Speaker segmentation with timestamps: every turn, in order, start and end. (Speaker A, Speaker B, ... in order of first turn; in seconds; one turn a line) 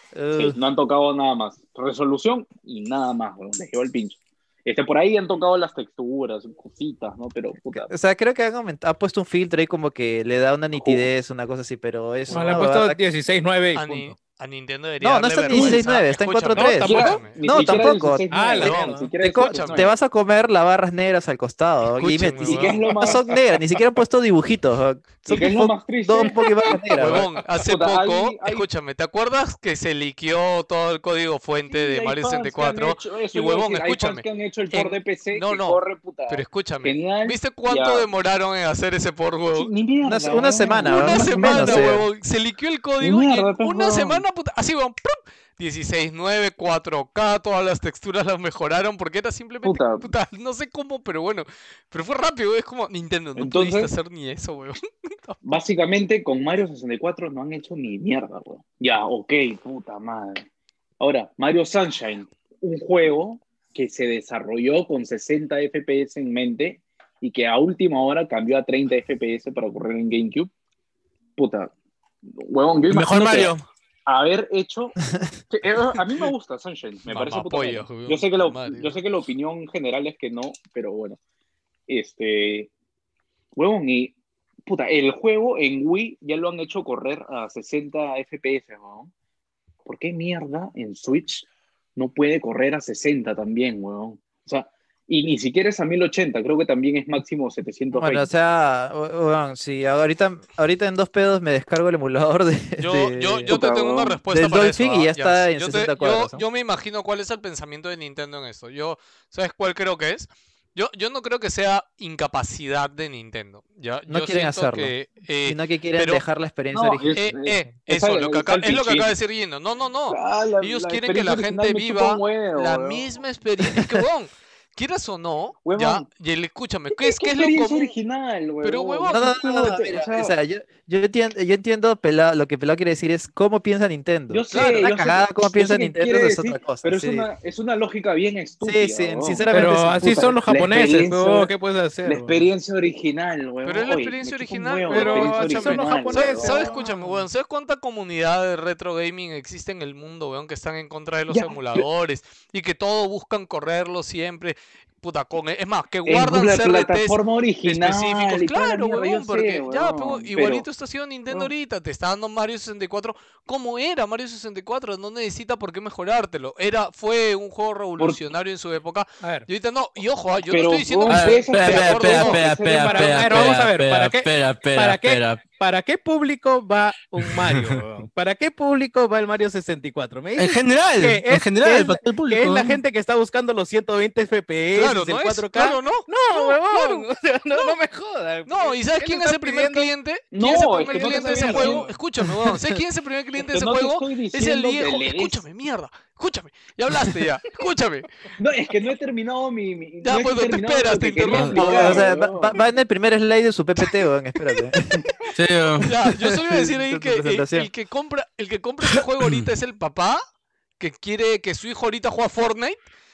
Speaker A: 0.1-0.6
Speaker B: 0.3-7.9
Speaker A: 7.7-13.0
Speaker B: 10.7-11.1
Speaker C: 12.3-12.5
Speaker D: 12.3-14.2
Speaker C: 13.7-17.5
Speaker A: 15.0-27.2
Speaker D: 15.5-15.8
Speaker D: 16.5-17.2
Speaker B: 16.8-19.9
Speaker D: 18.3-19.1
Speaker C: 18.6-19.9
Speaker C: 22.0-22.9
Speaker B: 22.4-23.2
Speaker B: 25.2-28.7
Speaker C: 26.9-39.7
Speaker B: 31.7-38.0
Speaker B: 39.5-41.9
Speaker A: 40.0-42.0
Speaker C: 40.9-55.4
Speaker B: 43.0-44.2
Speaker B: 49.6-50.1
Speaker B: 53.4-53.9
Speaker B: 55.4-60.4
Speaker B: 61.0-70.5
Speaker B: 71.4-71.7
Speaker B: 72.3-73.5
Speaker E: 72.9-73.6
Speaker B: 74.1-75.0
Speaker B: 75.5-81.2
Speaker C: 77.1-79.0
Speaker B: 81.9-82.7
Speaker B: 83.5-84.1
Speaker B: 84.7-89.1
Speaker B: 89.8-98.3
Speaker A: 97.9-103.6
Speaker C: 102.8-116.2
Speaker B: 103.5-104.2
Speaker A: 104.3-106.4
Speaker A: 114.1-114.9
Speaker A: 115.4-117.7
Speaker B: 116.7-119.1
Speaker C: 117.1-127.9
Speaker B: 120.1-123.1
Speaker B: 125.7-126.0
Speaker B: 127.0-130.3
Speaker C: 128.6-129.4
Speaker A: 129.1-137.3
Speaker B: 134.3-141.5
Speaker C: 134.5-134.9
Speaker A: 138.6-140.4
Speaker D: 139.5-142.5
Speaker B: 142.0-146.7
Speaker C: 143.6-172.4
Speaker D: 144.9-147.2
Speaker B: 151.3-151.8
Speaker B: 156.1-160.7
Speaker B: 168.0-168.2
Speaker D: 169.2-169.5
Speaker B: 170.5-173.5
Speaker E: 171.1-175.4
Speaker D: 172.7-189.9
Speaker E: 177.3-177.7
Speaker E: 180.3-182.8
Speaker C: 184.7-187.8
Speaker C: 188.4-198.1
Speaker B: 190.3-191.8
Speaker D: 191.0-192.0
Speaker B: 193.5-195.4
Speaker B: 198.4-202.6
Speaker C: 200.0-202.0
Speaker E: 201.3-202.0
Speaker A: 201.6-205.1
Speaker E: 205.3-205.9
Speaker C: 205.8-210.2
Speaker A: 206.1-207.7
Speaker C: 210.8-212.8